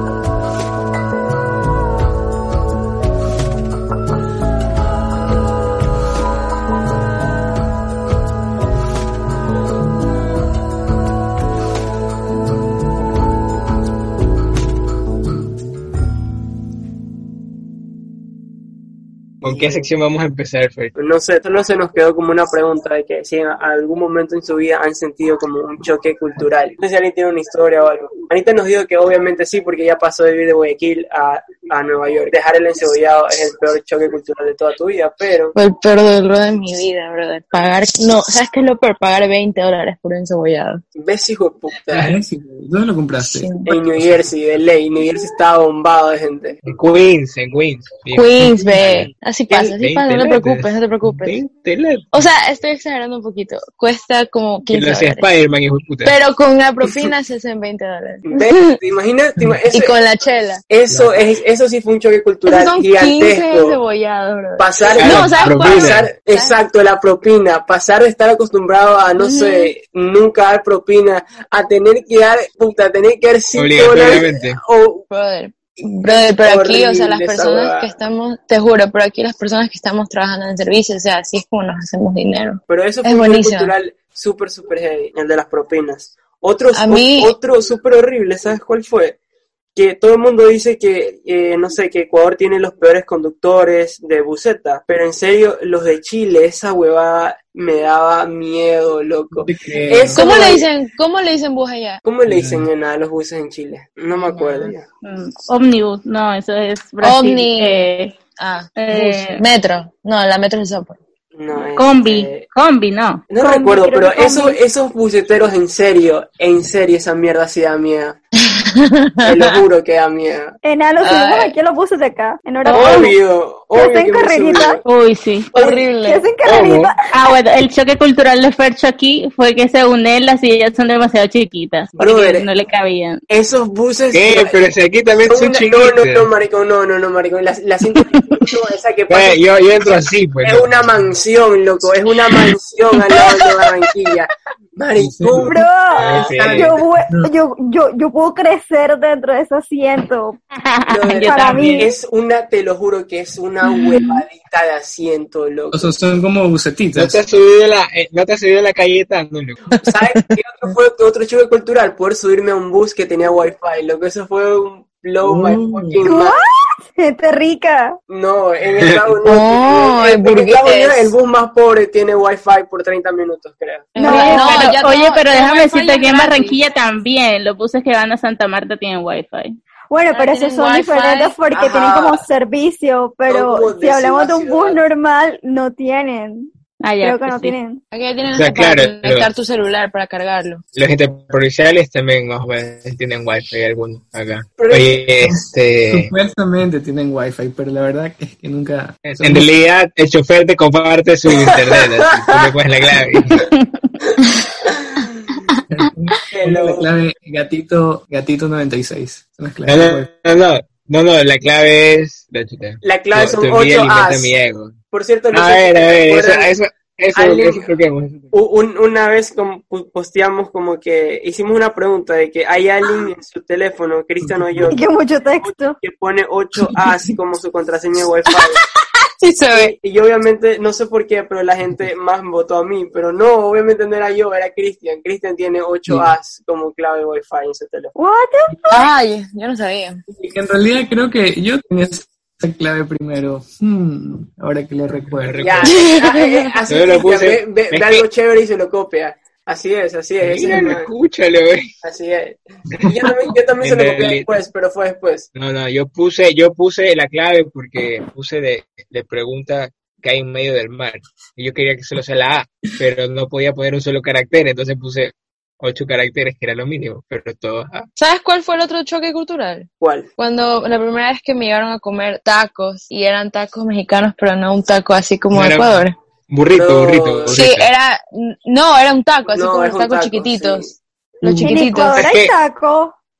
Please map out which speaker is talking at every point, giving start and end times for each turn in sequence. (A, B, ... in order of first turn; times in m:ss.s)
0:19.4-0:20.9 A
0:19.4-0:19.9 B
0:21.0-0:35.6 B
0:35.6-0:40.8 C
0:41.0-0:42.1 B
0:41.9-0:44.2 D
0:43.2-0:43.7 C
0:43.7-0:46.6 B
0:46.6-0:52.3 A
0:48.1-0:51.4 C
0:52.1-0:55.2 C
0:54.7-0:56.2 A
0:56.0-0:58.8 C
0:58.3-1:00.0 B
0:59.7-1:00.6 C
1:00.7-1:03.8 B
1:02.5-1:06.6 C
1:04.6-1:15.0 B
1:05.0-1:06.1 A
1:09.2-1:09.7 C
1:13.5-1:14.6 A
1:15.1-1:23.7 C
1:16.1-1:17.9 B
1:22.7-1:29.2 B
1:26.7-1:27.4 C
1:29.8-1:40.7 B
1:39.4-1:40.6 D
1:40.2-1:42.0 C
1:42.0-1:44.8 B
1:42.3-1:42.6 D
1:45.0-1:48.2 E
1:47.0-1:51.0 C
1:48.8-1:49.4 E
1:51.3-1:52.4 B
1:51.8-1:53.3 E
1:53.3-1:58.2 B
1:53.3-1:54.6 F
1:58.4-1:59.6 C
1:59.2-2:00.6 B
2:00.6-2:03.2 F
2:01.0-2:01.6 C
2:02.7-2:04.8 B
2:02.8-2:03.1 C
2:03.7-2:04.8 F
2:04.9-2:05.5 E
2:05.5-2:06.3 C
2:06.0-2:07.0 F
2:06.4-2:06.9 A
2:07.1-2:13.2 E
2:12.0-2:12.5 B
2:13.3-2:14.6 B
2:14.1-2:16.3 A
2:15.3-2:19.4 B
2:19.1-2:21.1 A
2:20.4-2:26.8 B
2:25.0-2:25.6 D
2:25.3-2:30.4 F
2:26.0-2:26.8 A
2:26.2-2:27.3 D
2:30.6-2:31.8 E
2:30.9-2:35.9 B
2:31.2-2:31.9 F
2:35.7-2:37.2 D
2:37.0-2:39.6 A
2:39.8-2:46.4 B
2:45.2-2:46.1 D
2:46.0-2:48.0 F
2:48.1-2:54.0 B
2:49.3-2:51.1 C
2:53.9-2:56.6 C
2:54.0-2:54.7 F
2:54.1-2:59.6 E
2:59.9-3:07.8 F
3:00.1-3:01.4 C
3:01.5-3:02.2 B
3:03.3-3:04.8 B
3:06.8-3:07.6 E
3:07.9-3:10.6 C
3:08.3-3:09.3 A
3:10.8-3:16.1 A
3:14.6-3:15.1 B
3:15.8-3:19.5 D
3:19.0-3:23.5 A
3:21.3-3:22.5 B
3:23.6-3:23.9 E
3:24.7-3:25.4 B
3:25.7-3:30.1 D
3:26.3-3:26.9 B
3:29.6-3:34.8 A
3:32.8-3:34.3 B
3:34.9-3:36.5 B
3:35.3-3:38.3 A
3:37.2-3:37.7 B
3:38.3-3:44.8 B
3:44.7-3:45.8 F
3:45.4-3:48.6 B
3:49.2-3:49.7 C
3:49.5-3:57.9 B
3:58.0-3:58.8 F
3:58.7-4:00.0 C
4:00.1-4:05.5 D
4:05.1-4:05.8 A
4:05.4-4:10.9 B
4:05.7-4:06.5 C
4:06.7-4:08.1 A
4:10.2-4:11.8 A
4:11.8-4:15.3 B
4:13.6-4:14.4 A
4:15.4-4:27.9 A
4:28.0-4:36.0 C
4:29.8-4:30.1 B
4:35.3-4:37.7 A
4:36.5-4:37.5 B
4:37.3-4:40.7 C
4:39.3-4:40.8 B
4:41.2-4:42.1 C
4:41.3-4:42.3 A
4:41.4-4:43.0 F